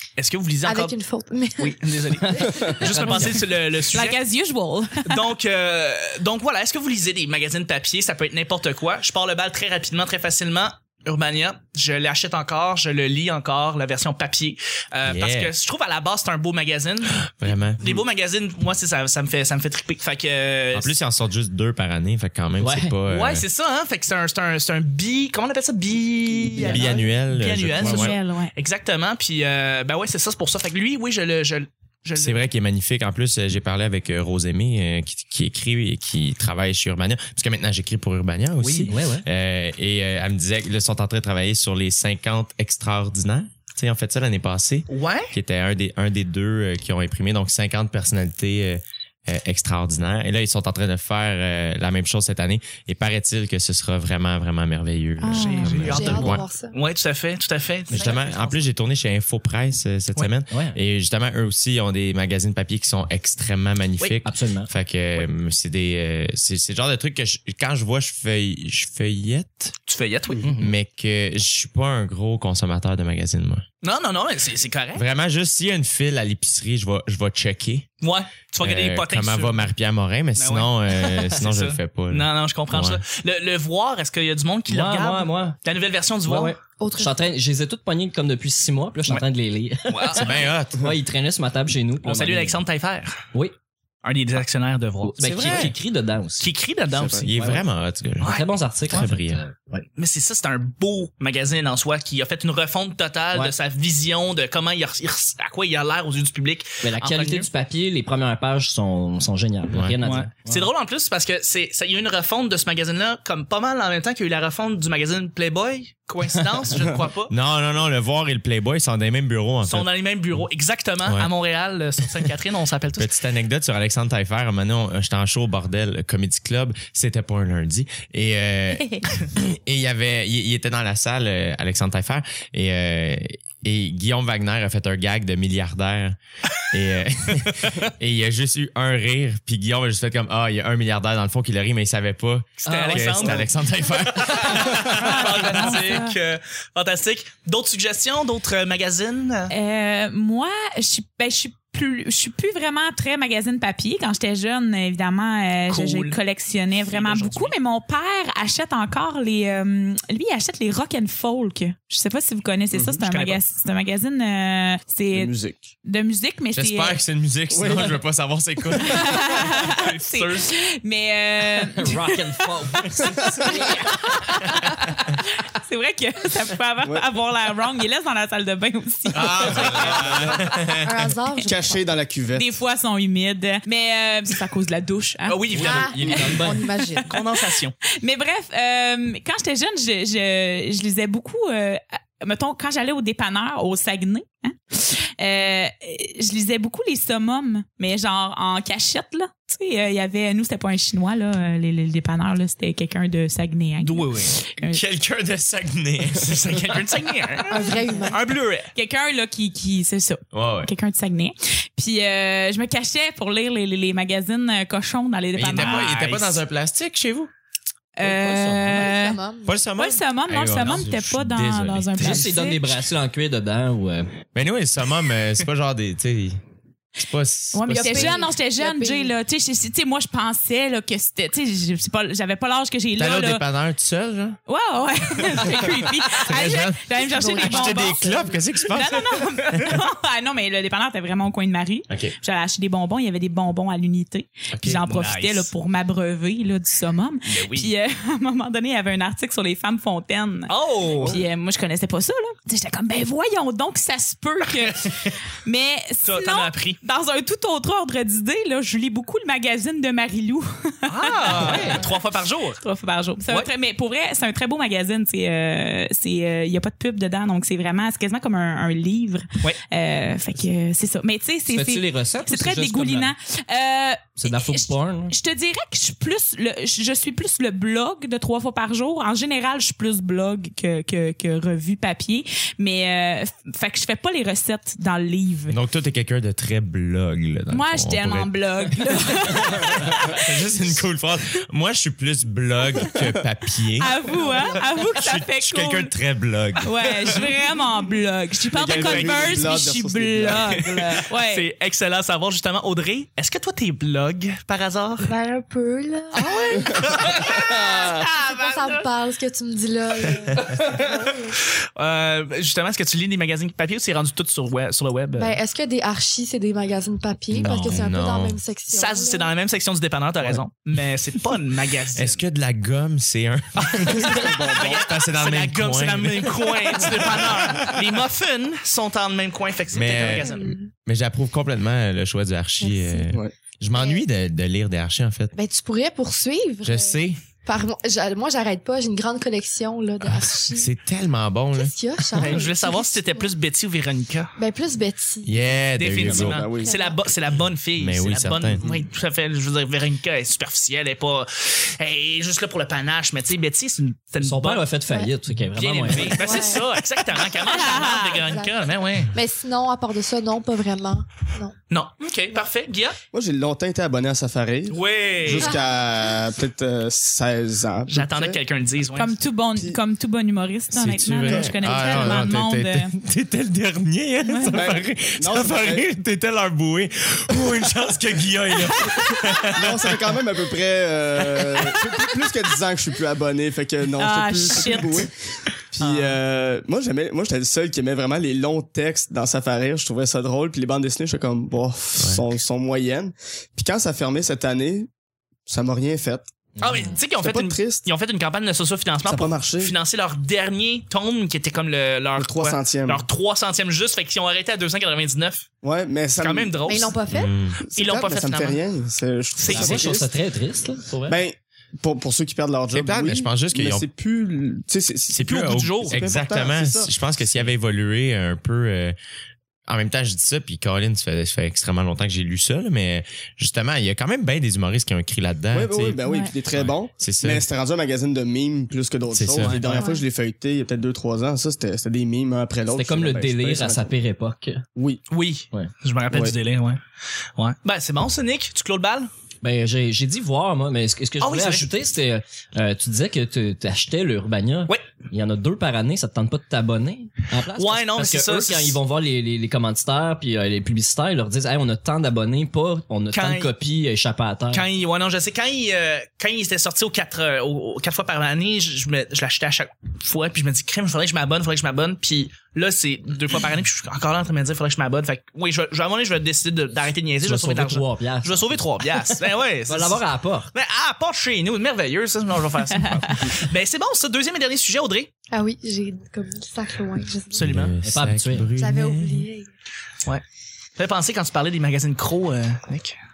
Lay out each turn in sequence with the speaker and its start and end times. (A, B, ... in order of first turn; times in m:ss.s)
0:00.2-0:01.0 A
0:00.6-0:02.9 B
0:01.6-0:04.2 A
0:02.3-0:03.4 C
0:03.1-0:05.3 D
0:05.1-0:20.9 A
0:15.0-0:15.6 E
0:17.3-0:17.8 E
0:20.7-0:23.4 E
0:22.6-0:23.0 C
0:23.1-0:32.4 A
0:26.6-0:26.8 C
0:26.6-0:26.9 B
0:26.6-0:28.2 E
0:27.8-0:28.5 D
0:32.2-0:56.4 E
0:38.6-0:39.2 C
0:44.9-0:45.3 A
0:55.2-0:55.9 D
0:55.3-0:58.6 A
0:55.9-0:56.8 B
0:57.9-1:09.8 E
1:00.5-1:00.8 C
1:04.2-1:04.7 C
1:09.9-1:10.4 A
1:10.4-1:10.8 C
1:10.6-1:13.6 E
1:13.8-1:15.0 A
1:15.0-1:17.9 E
1:18.0-1:19.6 A
1:18.6-1:23.0 E
1:20.4-1:20.7 A
1:21.3-1:26.6 A
1:24.7-1:25.6 C
1:26.3-1:32.6 C
1:26.8-1:27.3 B
1:29.9-1:30.5 A
1:30.1-1:30.9 E
1:32.0-1:33.2 A
1:34.0-1:35.7 A
1:35.0-1:36.5 C
1:35.3-1:35.8 E
1:36.4-1:37.3 A
1:37.1-1:39.4 E
1:37.4-1:37.6 C
1:38.2-1:39.1 A
1:38.2-1:39.8 C
1:40.0-1:47.5 A
1:46.8-1:50.7 C
1:50.0-1:57.3 A
1:57.3-1:59.9 E
1:59.6-2:03.1 A
2:01.0-2:01.3 E
2:03.0-2:16.2 E
2:16.7-2:25.5 E
2:22.6-2:23.5 A
2:22.6-2:23.5 C
2:24.0-2:29.5 A
2:24.7-2:26.2 D
2:29.5-2:47.0 D
2:35.7-2:36.2 A
2:36.8-2:37.5 A
2:42.7-2:43.4 A
2:45.1-2:45.7 F
2:46.6-2:49.3 E
2:47.5-2:48.0 F
2:48.8-3:00.0 D
2:49.7-2:50.5 A
2:51.6-2:53.5 C
2:53.2-2:53.6 F
2:56.8-2:57.1 F
2:59.1-3:01.1 E
2:59.5-3:00.1 A
2:59.5-3:00.5 F
3:00.8-3:01.8 B
3:01.4-3:02.6 F
3:02.3-3:24.8 D
3:05.3-3:06.4 A
3:05.6-3:07.2 B
3:05.6-3:06.6 C
3:07.1-3:07.8 A
3:23.8-3:24.3 A
3:24.6-3:26.7 E
3:26.2-3:28.7 A
3:27.5-3:28.3 B
3:28.8-3:36.0 D
3:30.3-3:30.7 E
3:35.4-3:37.3 E
3:35.6-3:36.4 A
3:38.0-3:39.2 D
3:38.0-3:38.9 C
3:38.6-3:39.6 B
3:39.5-3:42.3 E
3:39.7-3:42.6 D
3:42.0-3:44.2 C
3:44.4-3:46.4 E
3:47.0-3:48.2 E
3:47.5-3:53.4 D
3:47.7-3:49.2 B
3:53.0-3:54.4 E
3:54.5-4:21.9 D
3:55.5-3:59.8 E
3:57.0-3:58.4 B
4:01.9-4:02.2 E
4:04.5-4:04.8 E
4:04.8-4:05.5 A
4:07.3-4:07.7 A
4:10.5-4:11.2 A
4:14.8-4:15.1 A
4:16.0-4:16.8 A
4:20.9-4:22.6 A
4:21.3-4:21.8 C
4:22.6-4:45.6 D
4:31.5-4:33.1 C
4:34.2-4:35.2 C
4:45.5-4:48.3 E
4:47.5-4:50.4 D
4:49.3-4:56.7 E
4:53.8-4:55.9 D
4:54.0-4:54.9 B
4:56.6-5:01.5 D
4:58.5-5:01.0 F
4:58.5-4:59.5 A
5:00.3-5:05.1 A
5:05.0-5:07.1 B
5:06.1-5:08.1 A
5:07.3-5:08.8 D
5:08.2-5:11.4 B
5:11.8-5:15.4 A
5:15.2-5:19.3 B
5:17.4-5:18.4 E
5:18.7-5:22.2 A
5:21.9-5:27.8 E
5:23.6-5:30.6 A
5:23.8-5:24.8 F
5:29.7-5:35.3 E
5:30.0-5:30.7 B
5:32.6-5:33.0 B
5:33.7-5:34.0 B
5:35.3-5:40.7 B
5:36.6-5:37.2 E
5:40.0-5:41.7 E
5:41.5-5:43.4 B
5:42.2-5:44.3 A
5:44.4-5:45.4 B
5:45.2-5:46.5 E
5:45.8-5:54.6 A
5:46.0-5:46.8 F
5:46.4-5:47.1 B
5:47.8-5:48.6 E
5:54.2-5:56.4 C
5:55.6-5:59.1 A
5:56.2-5:56.7 B
5:57.4-5:58.3 D
5:58.1-6:01.5 B
6:01.7-6:03.0 A
6:03.1-6:08.4 F
6:04.7-6:05.5 A
6:05.4-6:05.7 B
6:07.9-6:09.2 A
6:09.0-6:12.9 D
6:09.5-6:09.8 F
6:10.7-6:20.1 E
6:11.2-6:12.3 F
6:14.2-6:14.6 D
6:14.5-6:15.9 F
6:19.5-6:25.1 F
6:21.2-6:21.6 E
6:24.0-6:25.1 D
6:25.7-6:34.9 F
6:25.8-6:26.1 A
6:32.0-6:32.3 E
6:35.5-6:36.3 F
6:36.6-6:36.8 C
6:36.6-6:45.5 A
6:37.2-6:37.9 F
6:39.0-6:39.8 F
6:42.2-6:43.0 F
6:45.6-6:46.6 F
6:46.2-6:47.0 A
6:46.7-6:47.3 B
6:47.1-6:47.6 E
6:47.7-6:50.1 F
6:47.7-6:48.6 A
6:49.4-6:49.9 A
6:49.5-6:51.2 C
6:51.1-6:56.9 F
6:52.7-6:53.9 E
6:55.1-6:59.0 E
6:55.2-6:56.1 A
6:59.7-7:07.5 E
7:05.5-7:13.9 F
7:06.0-7:06.3 D
7:09.1-7:09.8 E
7:09.4-7:09.6 A
7:09.7-7:10.0 B
7:12.7-7:14.6 C
7:14.8-7:15.0 F
7:15.1-7:16.8 A
7:16.1-7:16.4 F
7:17.4-7:19.1 A
7:19.4-7:34.7 C
7:21.2-7:21.7 A
7:27.6-7:28.8 A
7:33.1-7:33.5 A
7:34.5-7:50.0 A
7:47.2-7:49.1 C
7:49.7-7:50.5 C
7:50.5-7:55.1 A
7:52.8-7:53.3 D
7:55.3-7:57.6 B
7:57.3-7:57.8 A
7:57.4-7:59.3 E
7:57.8-7:58.5 C
7:58.6-7:59.5 B
8:00.8-8:03.0 A